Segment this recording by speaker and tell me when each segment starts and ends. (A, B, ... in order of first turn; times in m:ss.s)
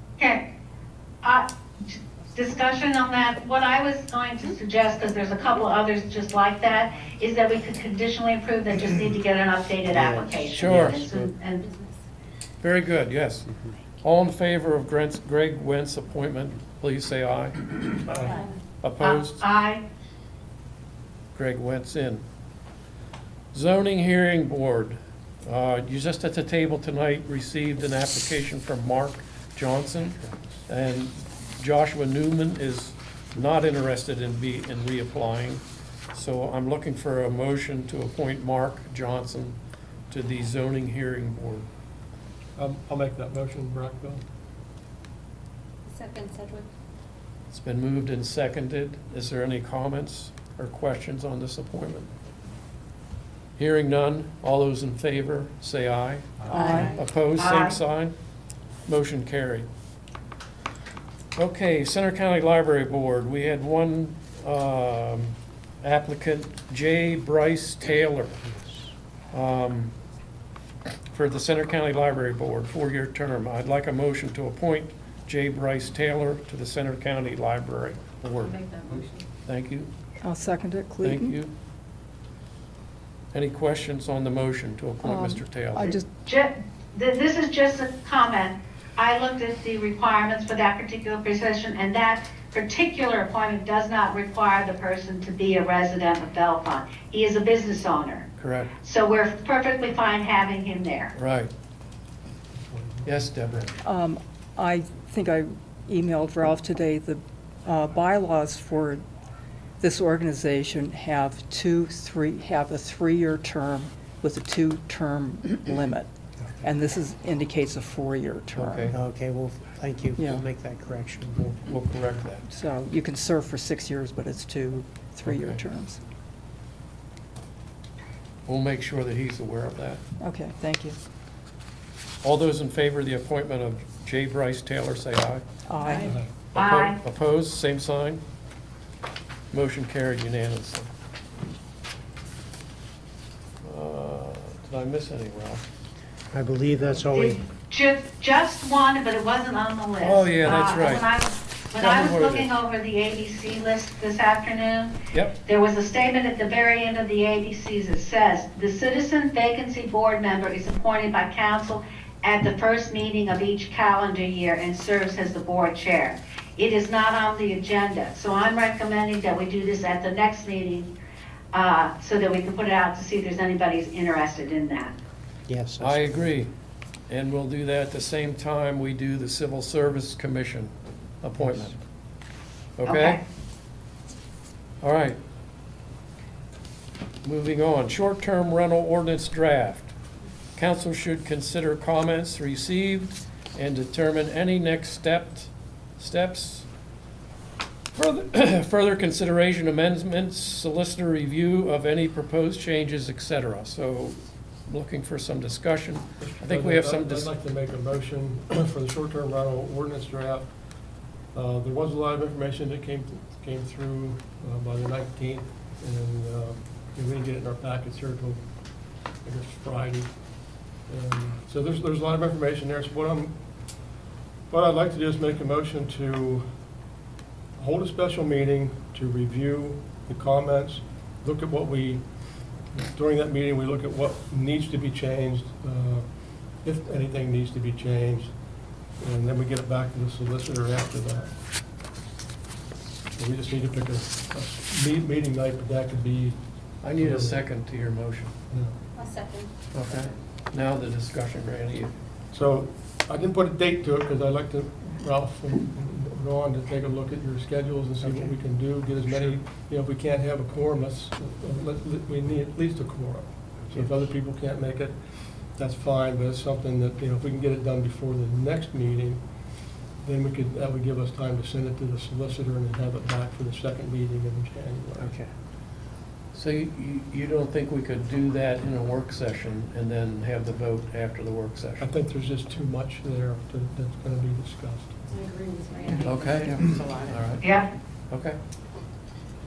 0:00.2-0:00.4 A
0:01.2-0:11.6 A
0:09.9-0:11.3 B
0:11.6-0:11.9 C
0:12.6-0:13.5 B
0:14.0-0:17.7 B
0:18.0-0:18.4 D
0:18.2-0:18.6 C
0:18.8-0:19.4 B
0:19.0-0:19.8 A
0:21.3-0:22.2 B
0:23.5-0:39.6 B
0:40.1-0:41.6 B
0:42.6-0:44.2 D
0:45.8-0:46.7 C
0:47.5-0:52.1 B
0:53.6-0:58.1 B
0:56.5-0:57.0 E
0:56.5-0:57.8 A
0:58.8-0:59.7 B
1:01.4-1:08.4 B
1:09.3-1:09.9 B
1:11.1-1:19.9 B
1:18.3-1:19.2 C
1:20.2-1:21.4 E
1:21.0-1:21.5 B
1:23.3-1:25.9 B
1:25.0-1:26.1 E
1:26.1-1:38.3 A
1:38.4-1:38.7 B
1:38.8-1:41.1 A
1:41.1-1:41.5 B
1:42.5-1:43.4 D
1:43.0-1:43.8 B
1:43.8-1:49.0 E
1:49.8-1:56.1 E
1:56.6-1:58.9 E
1:58.5-1:59.0 B
1:58.9-2:01.6 F
2:00.2-2:00.4 E
2:01.6-2:02.4 B
2:02.5-2:06.0 E
2:05.2-2:05.6 B
2:08.4-2:10.0 B
2:10.2-2:11.0 E
2:12.2-2:15.4 B
2:15.7-2:16.1 E
2:15.8-2:16.2 C
2:16.0-2:16.3 D
2:16.5-2:18.2 B
2:16.5-2:17.0 A
2:19.5-2:20.9 B
2:23.6-2:25.6 B
2:26.3-2:27.4 F
2:27.1-2:50.9 A
2:30.0-2:31.0 B
2:31.8-2:32.5 B
2:35.1-2:35.4 B
2:51.5-2:54.9 A
2:55.5-2:56.3 F
2:55.8-2:56.5 B
2:57.1-3:01.8 B
3:02.8-3:03.2 B
3:02.8-3:03.2 A
3:04.8-3:05.2 B
3:07.2-3:09.9 B
3:10.6-3:16.7 B
3:17.9-3:27.3 B
3:26.2-3:30.6 D
3:31.3-3:43.9 D
3:44.5-3:46.6 D
3:47.6-4:01.3 D
4:03.2-4:07.5 D
4:06.8-4:08.3 B
4:08.5-4:08.8 D
4:08.9-4:09.9 C
4:09.7-4:11.9 B
4:12.3-4:35.1 D
4:18.0-4:18.3 F
4:19.1-4:19.4 B
4:35.0-4:35.3 F
4:36.3-4:41.9 B
4:41.8-4:45.0 D
4:45.1-4:47.3 C
4:45.9-4:46.7 E
4:46.0-4:47.5 B
4:47.4-4:47.7 A
4:48.1-4:48.4 B